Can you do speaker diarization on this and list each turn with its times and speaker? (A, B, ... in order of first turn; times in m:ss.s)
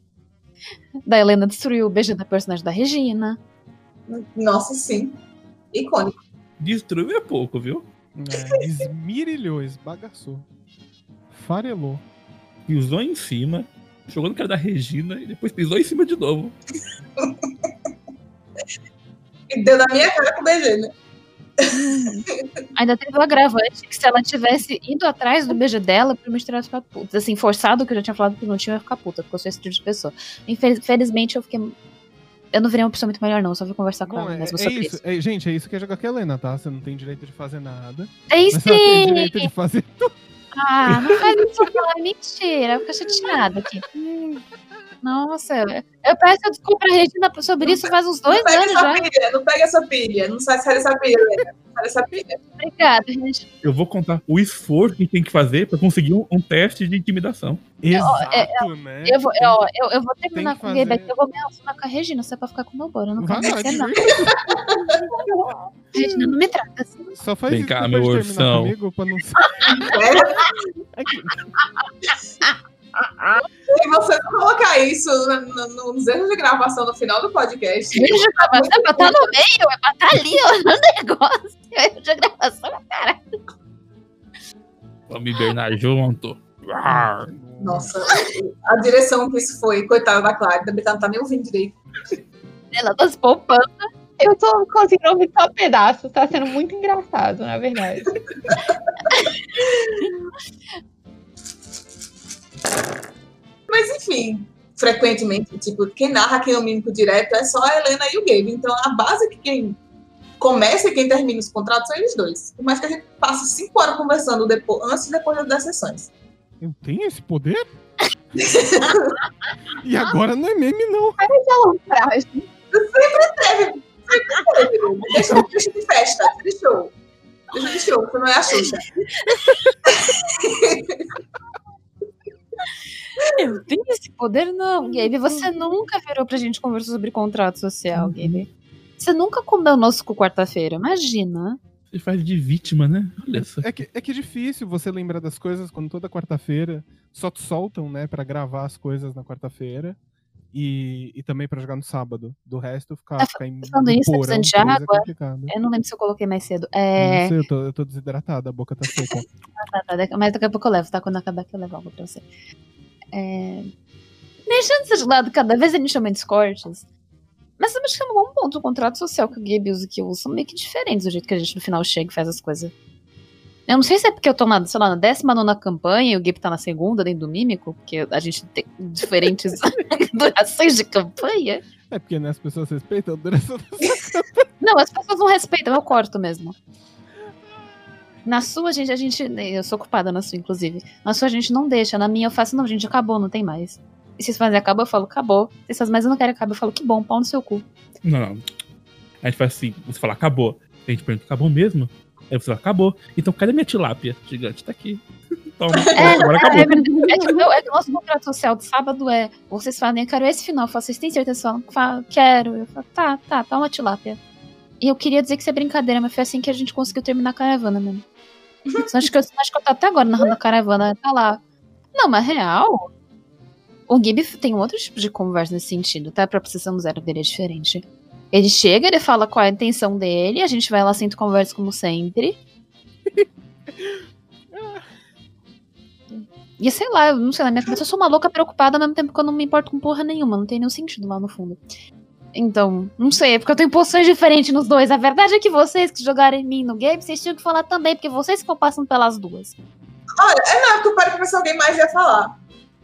0:01.1-0:03.4 A
0:04.1-0:05.2 B
0:05.7-0:06.2 B
0:06.6-0:07.8 C
0:08.2-0:10.5 D
0:11.3-0:12.0 D
0:12.7-0:16.6 C
0:17.2-0:17.7 B
0:19.5-0:20.9 B
0:21.7-0:31.8 A
0:32.5-0:35.0 A
0:34.0-0:40.2 D
0:38.3-0:39.5 A
0:40.5-0:43.8 A
0:40.9-0:41.2 D
0:44.0-0:44.8 D
0:45.0-0:49.1 A
0:47.6-0:52.4 B
0:52.6-0:53.5 A
0:53.6-0:57.6 C
0:57.8-0:59.7 D
0:57.9-1:04.0 A
1:00.3-1:01.1 D
1:03.2-1:04.9 D
1:04.1-1:05.0 B
1:05.2-1:05.6 E
1:05.9-1:06.4 D
1:05.9-1:07.2 A
1:07.2-1:10.0 D
1:07.5-1:08.7 C
1:09.7-1:10.6 B
1:11.0-1:11.5 D
1:12.4-1:13.4 A
1:13.7-1:19.2 B
1:17.9-1:23.2 A
1:25.1-1:27.3 C
1:26.8-1:27.9 D
1:27.6-1:31.8 B
1:32.7-1:33.8 A
1:34.2-1:38.2 E
1:38.0-1:39.2 B
1:43.7-1:49.8 B
1:50.4-1:56.1 B
1:56.6-1:57.7 D
1:58.4-1:59.2 B
1:59.8-2:01.2 D
2:01.2-2:02.5 E
2:02.7-2:06.9 B
2:07.5-2:08.8 B
2:09.9-2:11.0 B
2:13.3-2:18.5 A
2:18.0-2:18.3 D
2:19.0-2:21.6 A
2:21.9-2:23.8 C
2:23.3-2:30.0 D
2:30.5-2:35.5 D
2:33.2-2:37.4 A
2:37.0-2:39.2 D
2:39.6-2:42.3 A
2:43.1-2:43.7 A
2:44.5-2:46.8 A
2:47.6-2:52.7 A
2:53.7-3:01.6 A
3:01.9-3:04.5 D
3:04.6-3:06.6 A
3:07.2-3:08.1 D
3:08.2-3:17.6 A
3:18.0-3:18.4 C
3:19.2-3:25.0 C
3:25.6-3:27.0 C
3:25.8-3:26.6 B
3:26.0-3:34.2 A
3:34.8-3:38.0 A
3:38.8-3:41.4 A
3:42.0-3:42.9 A
3:43.9-3:52.4 A
3:53.1-3:54.9 D
3:56.1-4:01.6 A
4:02.3-4:09.6 A
4:10.2-4:12.4 B